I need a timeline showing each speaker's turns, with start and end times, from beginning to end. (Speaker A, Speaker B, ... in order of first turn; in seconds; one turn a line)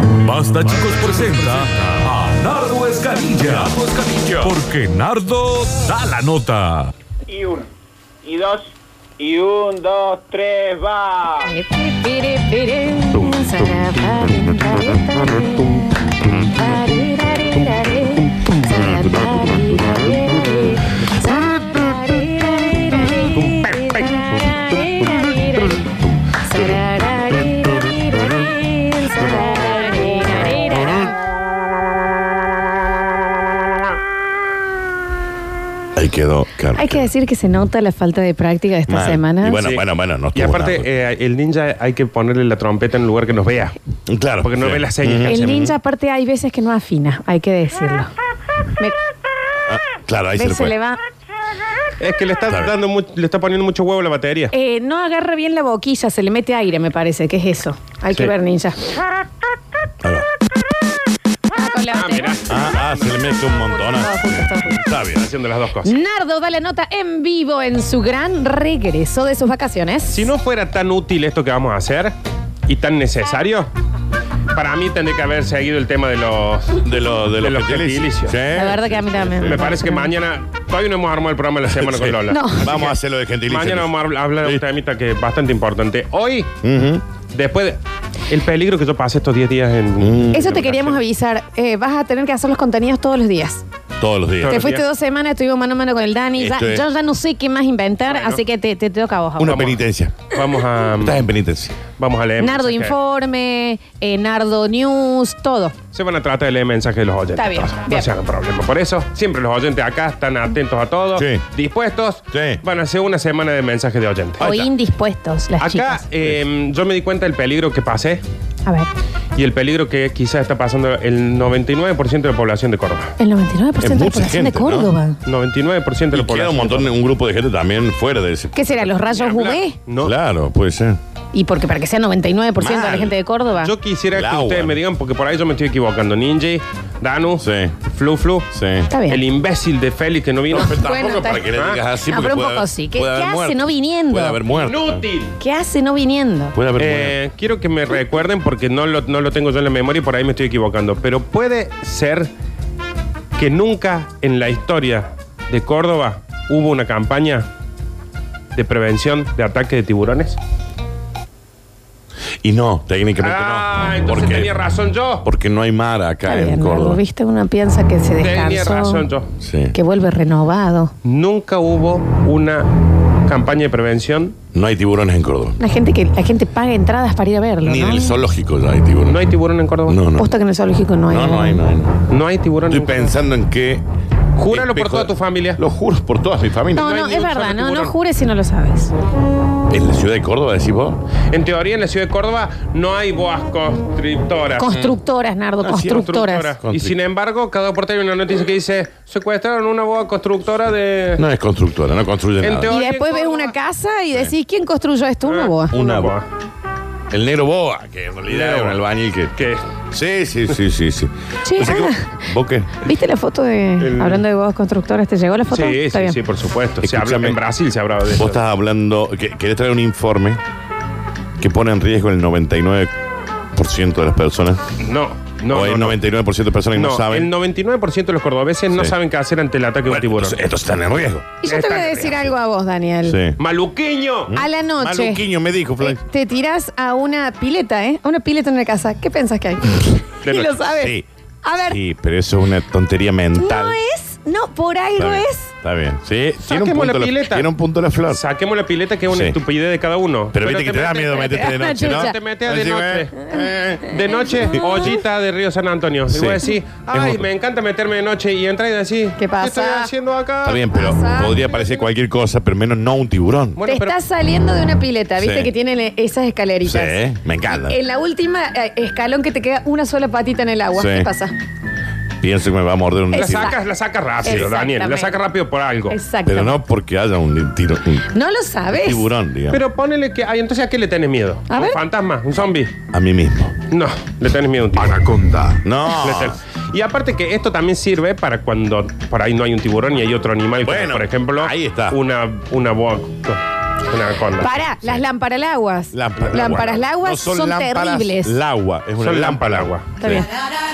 Speaker A: 0.1-6.9
Speaker B: 7.3-7.7
Speaker B: 8.2-8.6
Speaker B: 9.2-11.4
Speaker C: 11.4-15.8
Speaker C: 16.4-25.8
Speaker C: 26.4-31.1
Speaker D: 36.0-37.1
Speaker C: 36.7-39.6
Speaker D: 38.9-40.9
Speaker E: 39.5-43.7
Speaker D: 44.1-45.6
Speaker E: 44.4-45.8
Speaker C: 45.2-48.1
Speaker D: 49.7-50.7
Speaker C: 50.3-51.0
Speaker E: 52.0-54.5
Speaker D: 52.5-52.7
Speaker C: 54.5-58.8
Speaker C: 61.5-62.4
Speaker E: 61.9-63.3
Speaker D: 62.5-65.3
Speaker C: 63.5-64.7
Speaker E: 65.0-66.0
Speaker C: 65.8-70.3
Speaker E: 70.1-72.1
Speaker E: 72.7-73.7
Speaker E: 74.5-78.4
Speaker D: 76.8-79.7
Speaker C: 78.5-80.1
Speaker E: 79.4-86.5
Speaker D: 81.7-84.6
Speaker C: 82.3-82.7
Speaker D: 86.6-87.0
Speaker E: 87.3-91.0
Speaker D: 90.0-90.6
Speaker C: 90.3-93.6
Speaker D: 94.0-94.6
Speaker E: 94.4-94.8
Speaker C: 94.5-99.6
Speaker D: 96.3-96.9
Speaker E: 98.0-98.4
Speaker D: 99.4-100.3
Speaker E: 99.4-101.3
Speaker D: 101.0-101.8
Speaker E: 102.0-102.9
Speaker C: 102.4-105.7
Speaker E: 105.9-114.7
Speaker C: 107.3-108.1
Speaker D: 111.2-111.4
Speaker D: 112.3-112.6
Speaker C: 114.4-116.0
Speaker D: 114.4-114.7
Speaker E: 115.6-118.2
Speaker C: 118.6-118.9
Speaker E: 119.3-123.1
Speaker C: 123.2-125.2
Speaker D: 123.8-124.9
Speaker E: 125.2-127.0
Speaker D: 126.1-128.9
Speaker C: 128.5-129.8
Speaker E: 128.9-130.1
Speaker D: 130.0-131.0
Speaker C: 131.3-133.7
Speaker D: 132.6-133.2
Speaker E: 133.6-138.5
Speaker D: 134.1-134.8
Speaker D: 137.4-137.8
Speaker D: 138.5-138.9
Speaker C: 138.9-139.2
Speaker E: 139.1-140.8
Speaker D: 140.5-145.0
Speaker C: 140.5-141.5
Speaker E: 141.5-141.8
Speaker C: 142.0-144.4
Speaker E: 144.6-145.4
Speaker C: 145.4-146.6
Speaker D: 146.5-147.2
Speaker E: 146.8-152.3
Speaker E: 153.3-157.5
Speaker E: 158.5-160.4
Speaker D: 162.4-164.5
Speaker E: 163.2-165.2
Speaker D: 165.2-167.0
Speaker C: 166.2-169.0
Speaker E: 168.2-169.3
Speaker D: 169.4-169.8
Speaker C: 169.7-170.9
Speaker E: 171.0-174.3
Speaker D: 174.5-175.6
Speaker C: 175.6-178.2
Speaker D: 177.6-179.2
Speaker E: 179.1-180.0
Speaker D: 179.8-180.3
Speaker C: 180.2-181.6
Speaker D: 181.1-181.9
Speaker E: 182.1-183.2
Speaker D: 182.7-183.8
Speaker E: 184.4-185.6
Speaker D: 184.5-186.9
Speaker E: 186.8-187.9
Speaker C: 186.8-188.9
Speaker D: 189.7-191.0
Speaker E: 191.3-194.8
Speaker C: 194.6-196.6
Speaker D: 194.7-195.0
Speaker D: 195.6-196.9
Speaker E: 195.8-201.2
Speaker D: 201.2-202.7
Speaker E: 202.4-203.5
Speaker C: 202.7-205.7
Speaker E: 205.2-206.2
Speaker D: 205.7-206.1
Speaker D: 207.1-209.4
Speaker E: 208.3-208.8
Speaker E: 209.3-209.6
Speaker D: 209.9-212.9
Speaker C: 211.4-216.2
Speaker E: 213.8-214.2
Speaker E: 215.5-218.4
Speaker D: 216.8-217.4
Speaker D: 218.1-220.4
Speaker D: 221.4-222.9
Speaker D: 223.5-224.6
Speaker E: 224.8-226.0
Speaker D: 225.5-227.3
Speaker E: 226.7-230.5
Speaker D: 229.9-231.4
Speaker C: 231.4-233.2
Speaker E: 231.4-232.3
Speaker D: 233.0-233.4
Speaker E: 233.4-234.3
Speaker D: 234.3-236.0
Speaker C: 234.3-235.2
Speaker C: 235.8-241.8
Speaker E: 240.2-240.7
Speaker D: 240.7-241.1
Speaker D: 241.6-243.8
Speaker C: 243.3-245.5
Speaker D: 245.0-248.2
Speaker E: 246.4-247.5
Speaker E: 248.1-253.2
Speaker D: 249.1-249.4
Speaker D: 250.3-254.9
Speaker C: 251.2-252.2
Speaker C: 253.2-254.9
Speaker E: 253.9-260.6
Speaker D: 256.1-257.2
Speaker C: 259.2-259.9
Speaker D: 260.4-263.6
Speaker C: 260.5-261.4
Speaker E: 263.5-264.0
Speaker C: 263.6-271.3
Speaker D: 265.2-265.5
Speaker D: 266.6-267.8
Speaker D: 270.7-271.1
Speaker D: 272.2-273.5
Speaker C: 273.1-273.6
Speaker E: 273.1-276.0
Speaker C: 274.2-275.2
Speaker D: 274.2-274.5
Speaker C: 275.9-276.6
Speaker D: 276.2-278.1
Speaker C: 278.1-279.1
Speaker D: 278.7-279.6
Speaker E: 279.5-282.7
Speaker C: 281.5-281.8
Speaker D: 282.9-283.6
Speaker E: 283.7-285.0
Speaker A: 285.1-285.5
Speaker D: 285.5-286.4
Speaker E: 285.9-294.6
Speaker D: 290.6-292.0
Speaker C: 294.4-298.4
Speaker D: 294.7-295.0
Speaker D: 295.9-300.2
Speaker E: 299.0-300.2
Speaker C: 300.0-300.3